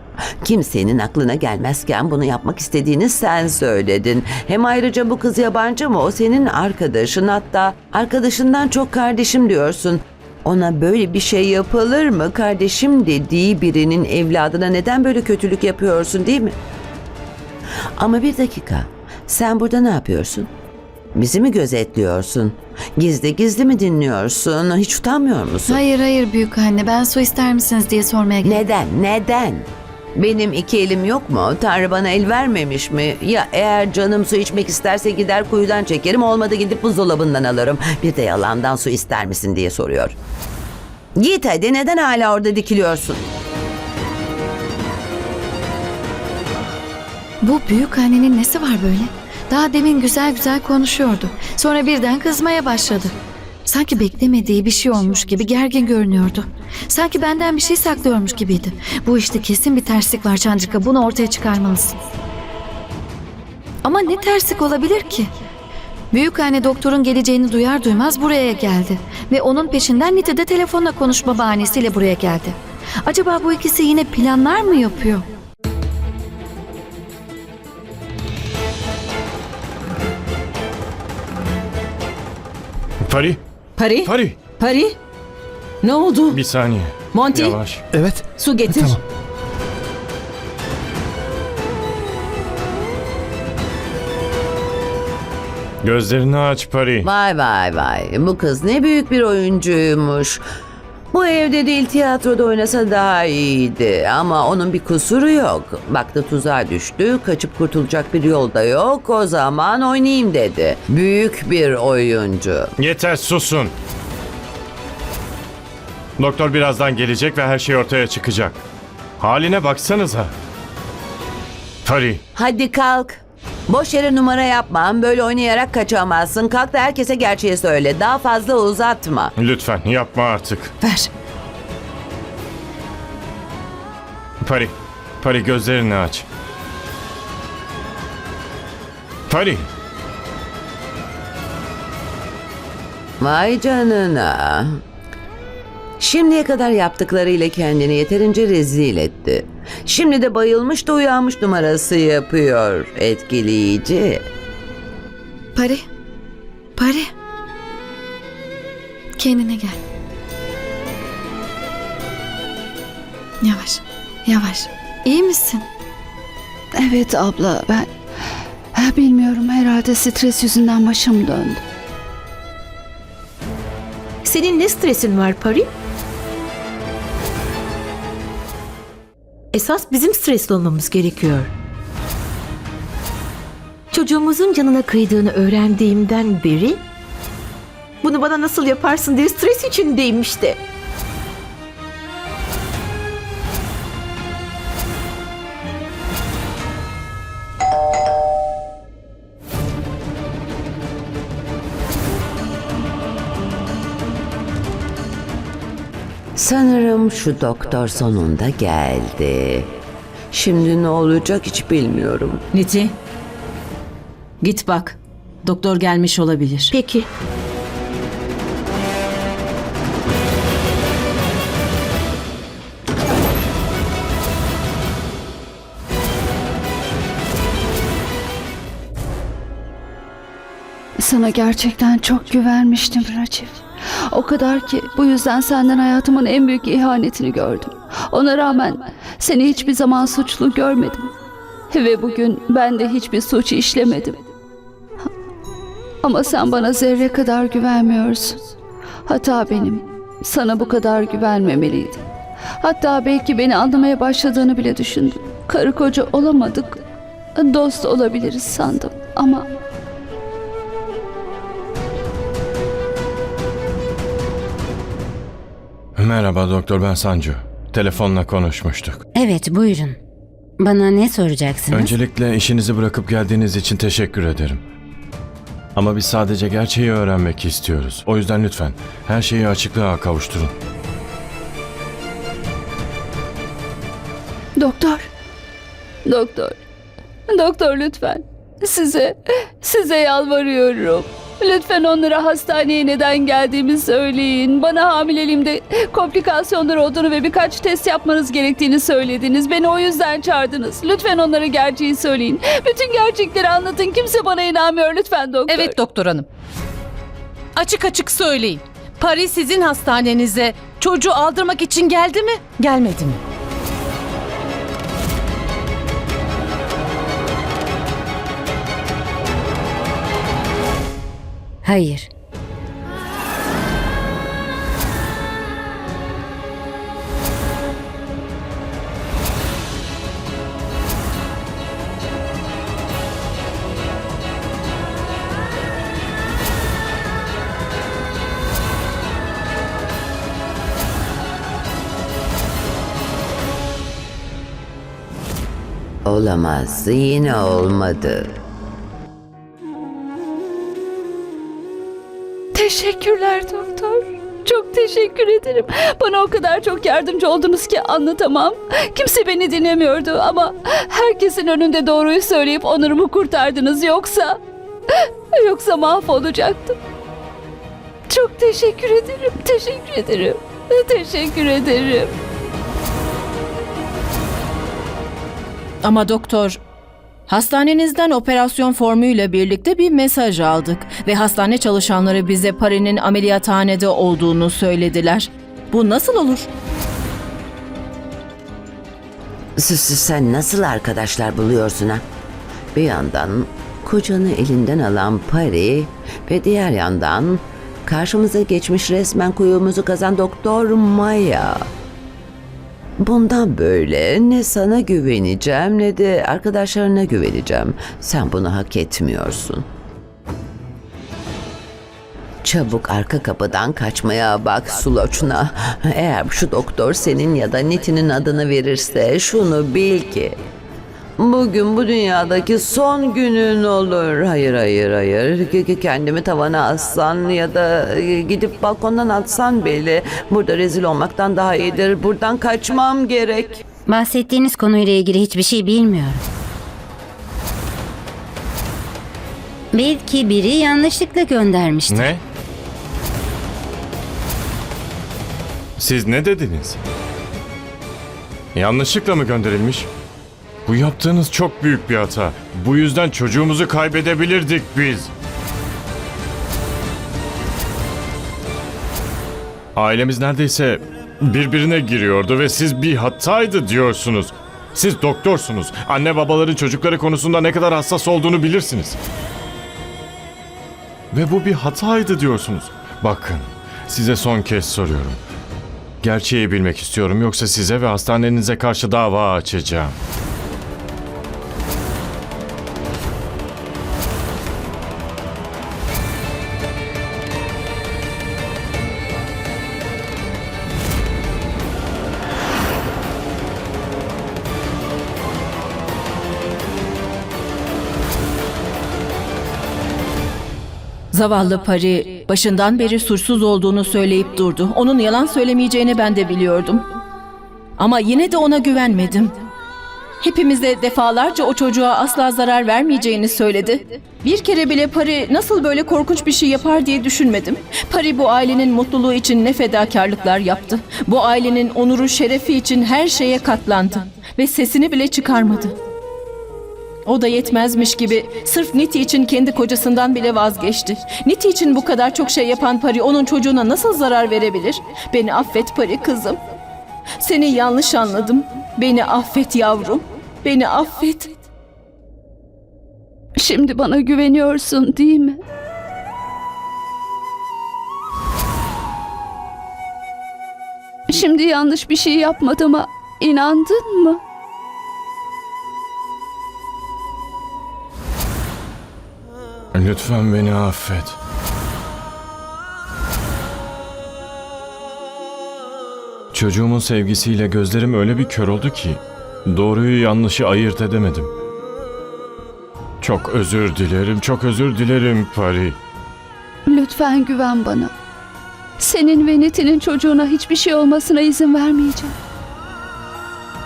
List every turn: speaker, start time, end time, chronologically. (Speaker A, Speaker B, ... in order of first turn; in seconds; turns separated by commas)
Speaker A: 0.4-16.6, Speaker A: 18.0-20.5, Speaker A: 21.1-25.8, Speaker B: 25.7-28.6, Speaker A: 28.4-40.2, Speaker A: 41.2-43.3, Speaker B: 47.4-53.1, Speaker B: 53.7-62.0, Speaker B: 63.8-65.3, Speaker B: 66.1-75.2, Speaker C: 83.0-83.4, Speaker D: 83.8-85.0, Speaker C: 84.0-84.4, Speaker D: 85.8-86.4, Speaker C: 86.3-87.9, Speaker D: 87.1-87.6, Speaker D: 88.3-89.0, Speaker C: 95.8-97.1, Speaker A: 97.0-100.4, Speaker A: 101.1-112.7, Speaker C: 112.8-113.7, Speaker C: 116.2-118.6, Speaker C: 119.2-120.3, Speaker C: 121.8-122.2, Speaker A: 122.3-129.3, Speaker C: 129.4-130.7, Speaker D: 130.8-131.1, Speaker C: 134.4-136.3, Speaker C: 139.3-139.7, Speaker A: 143.2-144.8, Speaker A: 146.0-154.2, Speaker B: 155.6-155.8, Speaker B: 156.8-157.1, Speaker B: 159.2-159.8, Speaker B: 163.4-165.7, Speaker E: 166.8-167.9, Speaker E: 168.7-171.6, Speaker F: 174.2-175.7, Speaker F: 179.5-181.5, Speaker F: 183.9-186.8, Speaker F: 188.0-190.6, Speaker A: 206.4-209.7, Speaker A: 210.3-212.4, Speaker D: 212.5-212.9, Speaker D: 214.4-216.8, Speaker F: 216.7-217.1, Speaker E: 231.0-241.1, Speaker E: 241.7-244.2, Speaker E: 246.0-248.4, Speaker E: 249.1-252.1, Speaker E: 252.6-256.8, Speaker E: 257.4-259.5, Speaker C: 266.0-269.0, Speaker G: 269.2-270.0, Speaker G: 270.6-271.9, Speaker C: 271.7-274.6, Speaker C: 275.8-280.5, Speaker E: 284.6-285.1, Speaker E: 286.1-286.6, Speaker E: 287.3-305.8, Speaker D: 305.5-305.9, Speaker H: 305.8-306.2, Speaker D: 307.6-308.4, Speaker H: 307.6-313.0, Speaker D: 309.0-313.1, Speaker G: 321.6-322.1, Speaker A: 346.1-348.3, Speaker E: 352.6-364.4, Speaker E: 364.9-366.8, Speaker E: 368.1-372.1, Speaker D: 375.8-376.6, Speaker D: 377.3-386.5, Speaker A: 389.6-392.0, Speaker A: 392.7-401.6, Speaker A: 403.0-409.7, Speaker A: 412.4-420.4, Speaker A: 421.2-433.6, Speaker G: 433.9-436.2, Speaker G: 439.7-442.1, Speaker C: 441.9-442.2, Speaker C: 445.8-446.8, Speaker C: 448.6-449.9, Speaker C: 450.7-455.1, Speaker C: 459.8-469.0, Speaker C: 471.1-475.2, Speaker C: 476.0-480.0, Speaker D: 501.1-506.9, Speaker D: 507.8-509.4, Speaker D: 510.2-525.8, Speaker D: 527.1-536.4, Speaker D: 537.2-541.3, Speaker E: 543.4-545.4, Speaker E: 551.1-554.2, Speaker C: 559.7-561.2, Speaker C: 566.3-571.3, Speaker C: 573.0-575.8, Speaker E: 576.7-577.9, Speaker E: 578.8-582.1